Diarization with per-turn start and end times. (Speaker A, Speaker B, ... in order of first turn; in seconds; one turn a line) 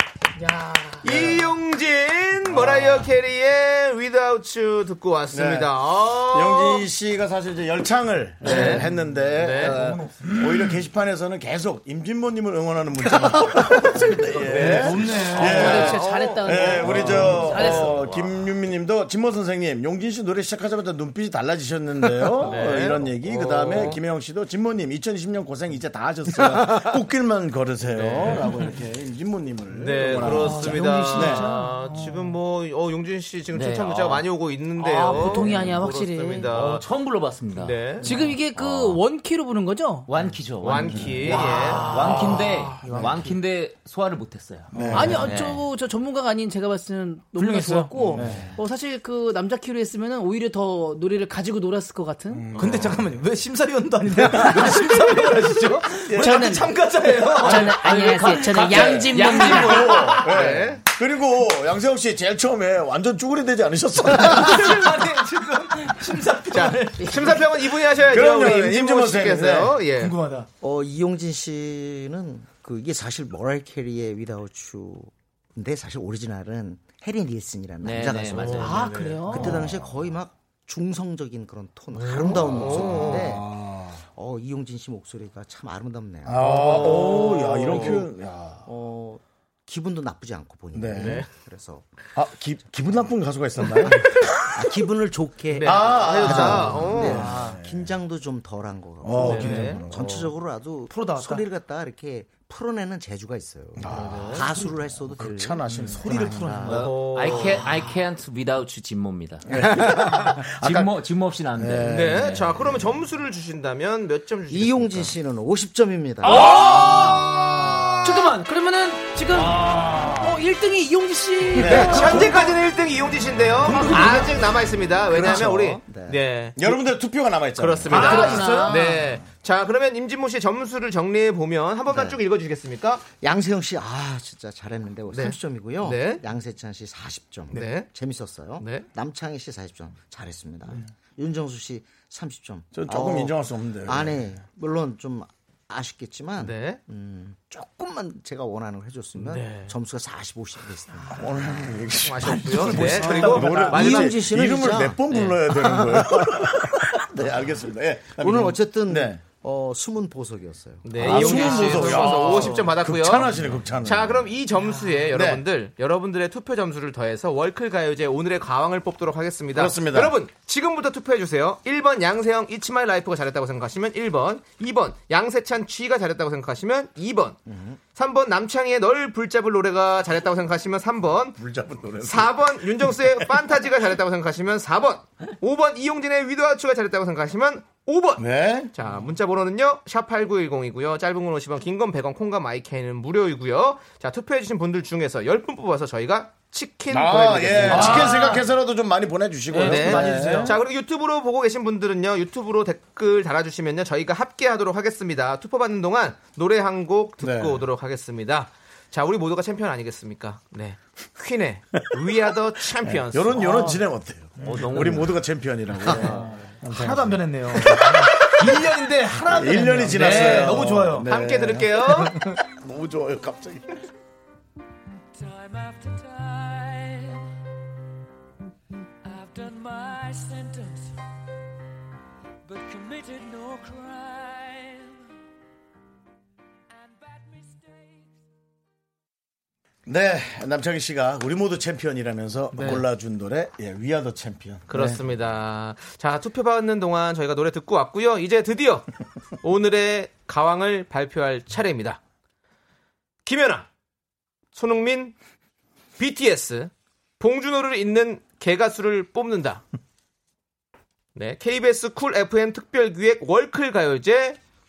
Speaker A: 0.4-1.1
Speaker B: 1.0-6.8
Speaker C: 1.0-1.5
Speaker C: 2.5-3.1
Speaker C: 5.3-5.7
Speaker C: 6.3-31.5
Speaker B: 8.4-9.8
Speaker A: 8.4-8.8
Speaker D: 9.6-10.7
Speaker B: 14.4-17.8
Speaker D: 14.5-15.6
Speaker A: 15.1-18.1
Speaker B: 22.4-24.0
Speaker B: 27.9-28.4
Speaker B: 29.7-36.8
Speaker A: 30.2-32.4
Speaker E: 33.5-34.2
Speaker A: 34.8-36.5
Speaker E: 35.1-35.6
Speaker E: 36.5-39.0
Speaker B: 37.5-38.1
Speaker A: 38.0-40.1
Speaker E: 40.1-45.6
Speaker B: 40.6-42.1
Speaker C: 41.0-41.2
Speaker D: 41.6-43.3
Speaker C: 42.9-43.1
Speaker C: 44.7-45.3
Speaker A: 44.9-52.5
Speaker D: 47.3-48.3
Speaker C: 48.1-48.5
Speaker C: 52.3-53.0
Speaker D: 52.5-60.3
Speaker C: 54.2-54.9
Speaker C: 56.1-56.5
Speaker A: 56.2-60.0
Speaker C: 58.5-64.8
Speaker B: 60.1-60.8
Speaker D: 64.0-67.5
Speaker B: 66.5-70.1
Speaker C: 68.0-69.8
Speaker D: 70.0-70.5
Speaker F: 70.6-88.0
Speaker E: 77.8-79.1
Speaker A: 78.5-79.6
Speaker C: 79.3-79.9
Speaker C: 82.2-84.0
Speaker B: 82.2-83.3
Speaker C: 86.2-88.7
Speaker B: 86.4-88.0
Speaker F: 88.7-91.9
Speaker C: 90.7-91.2
Speaker B: 90.9-91.3
Speaker C: 92.2-94.1
Speaker F: 94.5-107.0
Speaker B: 95.5-97.3
Speaker C: 95.6-97.9
Speaker D: 97.2-97.6
Speaker C: 99.0-100.2
Speaker B: 99.2-100.3
Speaker D: 100.9-101.4
Speaker C: 103.8-106.7
Speaker B: 104.0-104.4
Speaker D: 105.9-106.8
Speaker E: 106.6-112.5
Speaker B: 106.7-107.7
Speaker C: 109.5-110.9
Speaker C: 111.6-112.1
Speaker B: 111.9-115.1
Speaker F: 114.5-116.7
Speaker A: 116.2-117.4
Speaker D: 116.3-116.6
Speaker A: 118.0-122.3
Speaker D: 119.5-120.1
Speaker C: 121.5-122.3
Speaker B: 121.6-126.7
Speaker D: 123.7-124.2
Speaker F: 125.1-126.2
Speaker C: 125.1-125.5
Speaker C: 126.5-128.6
Speaker B: 127.6-133.0
Speaker A: 127.9-129.0
Speaker F: 131.9-132.2
Speaker F: 133.2-151.8
Speaker B: 135.1-136.2
Speaker B: 137.5-137.9
Speaker B: 138.6-138.9
Speaker C: 142.7-144.2
Speaker B: 146.4-146.8
Speaker B: 149.2-149.7
Speaker C: 151.1-159.2
Speaker B: 152.0-154.1
Speaker F: 152.7-156.5
Speaker A: 153.0-153.2
Speaker D: 153.0-153.7
Speaker F: 158.2-162.0
Speaker B: 160.8-163.3
Speaker C: 160.9-164.3
Speaker B: 163.8-177.4
Speaker A: 164.7-165.0
Speaker C: 165.1-165.4
Speaker C: 169.5-170.1
Speaker F: 177.5-177.8
Speaker B: 177.9-181.4
Speaker C: 181.4-183.3
Speaker B: 182.0-198.3
Speaker C: 188.2-188.7
Speaker C: 196.9-200.6
Speaker D: 197.7-198.4
Speaker D: 199.5-200.5
Speaker B: 199.5-213.5
Speaker C: 207.2-207.6
Speaker C: 212.8-218.6
Speaker D: 213.4-213.8
Speaker D: 214.4-214.7
Speaker E: 214.4-215.2
Speaker D: 215.8-221.0
Speaker C: 219.2-221.9
Speaker B: 220.0-220.5
Speaker B: 221.0-222.2
Speaker C: 222.4-223.7
Speaker G: 225.4-227.2
Speaker G: 229.1-230.7
Speaker G: 232.5-234.7
Speaker C: 239.8-245.0
Speaker B: 242.5-242.8
Speaker B: 244.7-248.9
Speaker B: 249.4-252.0
Speaker B: 253.2-253.7
Speaker B: 254.5-255.1
Speaker B: 256.0-259.6
Speaker B: 261.1-264.4